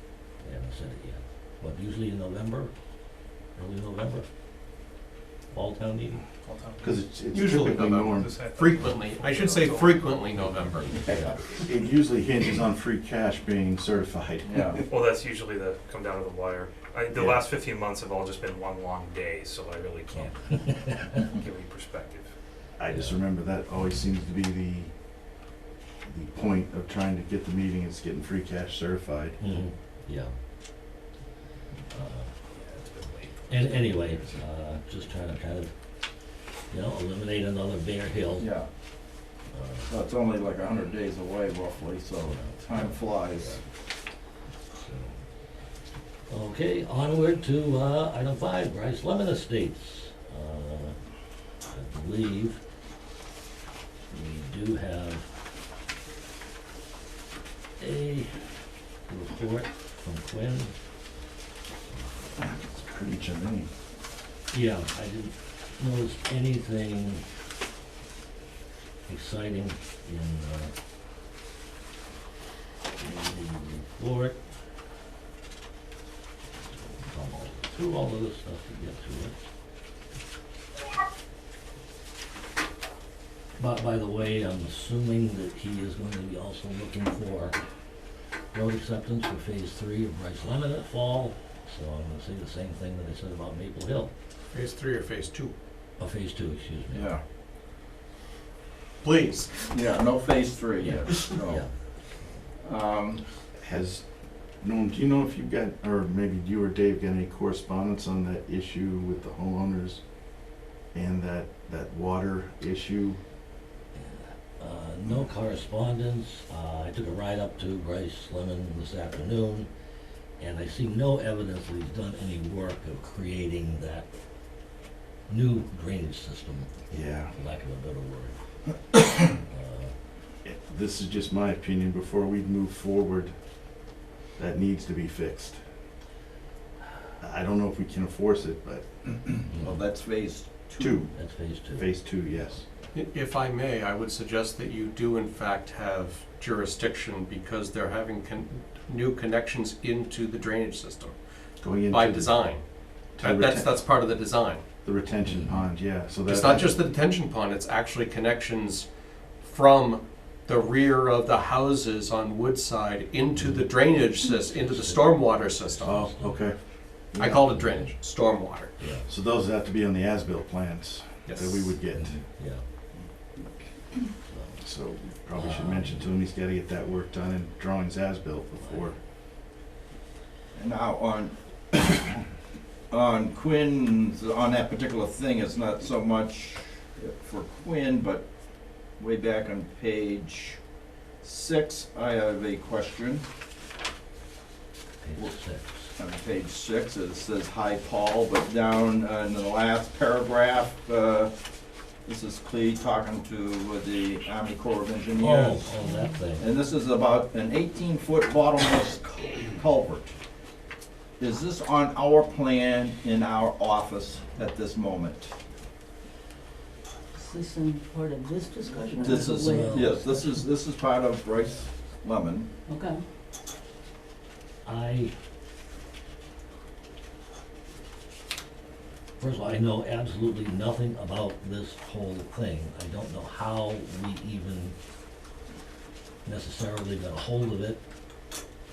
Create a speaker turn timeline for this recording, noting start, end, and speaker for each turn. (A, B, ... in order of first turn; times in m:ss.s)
0:00.4-0:02.7 A
0:03.5-0:04.3 A
0:05.5-0:06.2 A
0:06.4-0:07.0 B
0:06.8-0:08.3 C
0:07.3-0:10.9 D
0:08.2-0:10.2 B
0:10.4-0:11.4 A
0:11.1-0:14.8 C
0:14.4-0:14.8 E
0:14.9-0:22.3 B
0:17.1-0:17.4 C
0:20.1-0:21.2 A
0:22.8-0:24.9 C
0:22.9-0:23.2 A
0:26.0-0:29.4 C
0:29.4-0:30.3 A
0:31.9-0:32.3 A
0:32.5-0:33.8 B
0:33.5-0:35.7 A
0:36.7-0:38.5 A
0:38.4-0:38.7 E
0:39.5-0:39.9 A
0:39.9-0:43.6 E
0:42.3-0:43.6 A
0:44.8-0:45.2 A
0:46.3-0:51.0 A
0:51.7-0:52.6 A
0:54.1-0:55.3 A
0:57.8-0:58.3 A
0:59.1-1:00.7 A
1:02.4-1:03.7 C
1:04.5-1:07.2 A
1:09.1-1:10.7 A
1:13.0-1:14.4 A
1:17.0-1:19.4 A
1:23.6-1:27.6 A
1:28.5-1:34.1 A
1:34.5-1:35.5 D
1:36.0-1:37.1 A
1:36.9-1:37.2 E
1:39.0-1:39.7 D
1:39.7-1:41.7 E
1:42.6-1:43.2 E
1:43.6-1:50.0 C
1:50.9-1:53.2 C
1:54.0-1:59.7 A
2:00.4-2:04.1 A
2:05.3-2:08.4 A
2:06.9-2:07.3 C
2:09.5-2:09.9 A
2:10.4-2:13.3 C
2:14.4-2:15.6 C
2:17.2-2:19.1 C
2:19.4-2:21.0 E
2:20.8-2:21.1 C
2:21.2-2:21.8 A
2:21.8-2:22.6 C
2:22.9-2:31.2 D
2:31.6-2:32.4 C
2:31.9-2:34.6 D
2:33.2-2:33.8 C
2:34.8-2:36.8 C
2:35.3-2:35.6 A
2:36.3-2:38.9 D
2:39.4-2:46.1 D
2:43.4-2:43.7 A
2:44.2-2:46.4 A
2:45.8-2:47.6 C
2:47.2-2:48.7 D
2:47.5-2:47.9 A
2:48.8-2:49.1 A
2:49.1-2:52.2 C
2:51.3-2:51.8 D
2:51.9-2:52.6 A
2:54.3-2:54.6 A
2:54.6-2:59.0 C
2:55.3-2:56.1 A
2:58.6-2:58.9 A
3:00.5-3:02.0 E
3:02.9-3:08.2 E
3:09.0-3:10.6 E
3:11.2-3:13.2 E
3:15.0-3:15.9 A
3:16.0-3:21.3 E
3:22.1-3:25.8 E
3:25.2-3:26.4 A
3:26.4-3:30.1 E
3:31.2-3:35.3 E
3:37.1-3:40.3 F
3:39.0-3:42.5 E
3:39.3-3:39.9 A
3:42.7-3:43.0 F
3:44.6-3:45.1 A
3:49.2-3:54.8 A
3:56.2-3:57.8 A